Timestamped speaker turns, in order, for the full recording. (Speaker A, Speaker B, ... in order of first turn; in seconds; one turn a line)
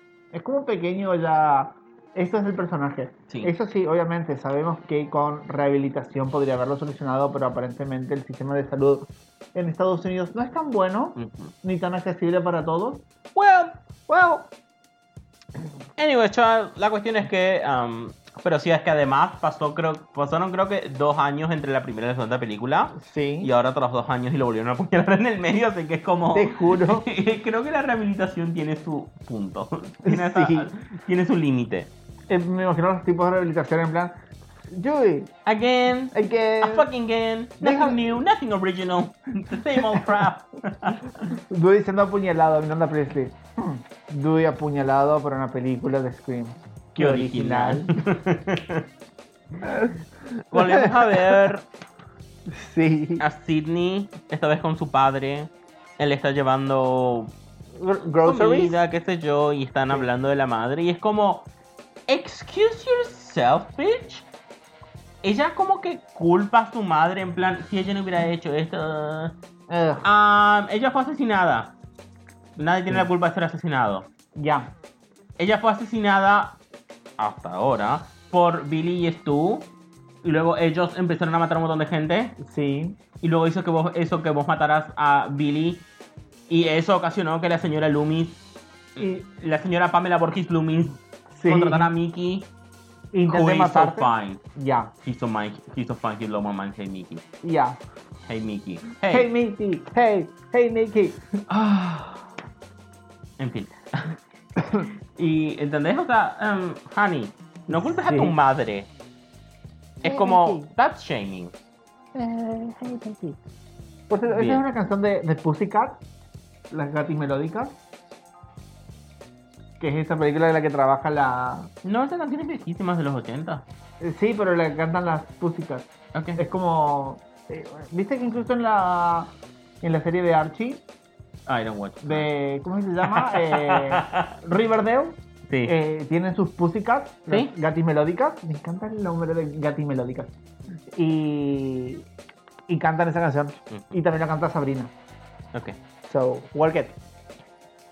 Speaker A: 0.3-13.0
Speaker B: 11.2-11.5
Speaker B: 13.3-13.8
Speaker A: 14.1-14.5
Speaker B: 16.0-31.9
Speaker A: 22.9-23.5
Speaker A: 26.3-27.1
Speaker A: 30.1-30.7
Speaker A: 32.3-34.1
Speaker A: 34.7-35.3
Speaker B: 35.5-41.2
Speaker A: 36.1-36.9
Speaker A: 37.6-38.0
Speaker A: 41.3-48.0
Speaker B: 47.0-48.9
Speaker A: 49.6-50.0
Speaker B: 50.5-51.7
Speaker A: 50.5-51.4
Speaker A: 52.5-53.2
Speaker B: 53.2-57.3
Speaker A: 57.8-58.8
Speaker B: 58.2-61.5
Speaker B: 62.1-64.3
Speaker B: 65.2-69.4
Speaker A: 69.7-70.0
Speaker B: 70.0-71.7
Speaker B: 72.6-74.1
Speaker A: 74.4-74.7
Speaker B: 75.4-76.6
Speaker B: 77.2-79.7
Speaker B: 80.2-82.4
Speaker A: 82.4-83.0
Speaker B: 83.2-85.9
Speaker B: 86.5-88.4
Speaker B: 89.0-92.5
Speaker A: 91.3-91.9
Speaker A: 93.1-94.9
Speaker B: 93.3-94.4
Speaker B: 95.0-97.2
Speaker A: 97.4-97.8
Speaker B: 98.3-99.3
Speaker A: 99.1-101.3
Speaker B: 101.5-102.2
Speaker B: 103.4-104.2
Speaker A: 104.6-104.9
Speaker B: 105.2-108.9
Speaker A: 107.7-108.3
Speaker B: 110.0-111.5
Speaker A: 110.0-110.7
Speaker A: 112.2-113.4
Speaker A: 114.1-116.0
Speaker B: 114.3-114.6
Speaker A: 116.7-117.8
Speaker A: 119.8-121.7
Speaker B: 121.8-123.7
Speaker A: 124.0-130.8
Speaker B: 126.1-126.4
Speaker B: 131.5-132.3
Speaker A: 132.0-140.3
Speaker B: 133.0-134.3
Speaker B: 135.5-135.7
Speaker A: 140.9-142.1
Speaker A: 142.7-144.9
Speaker A: 146.1-147.0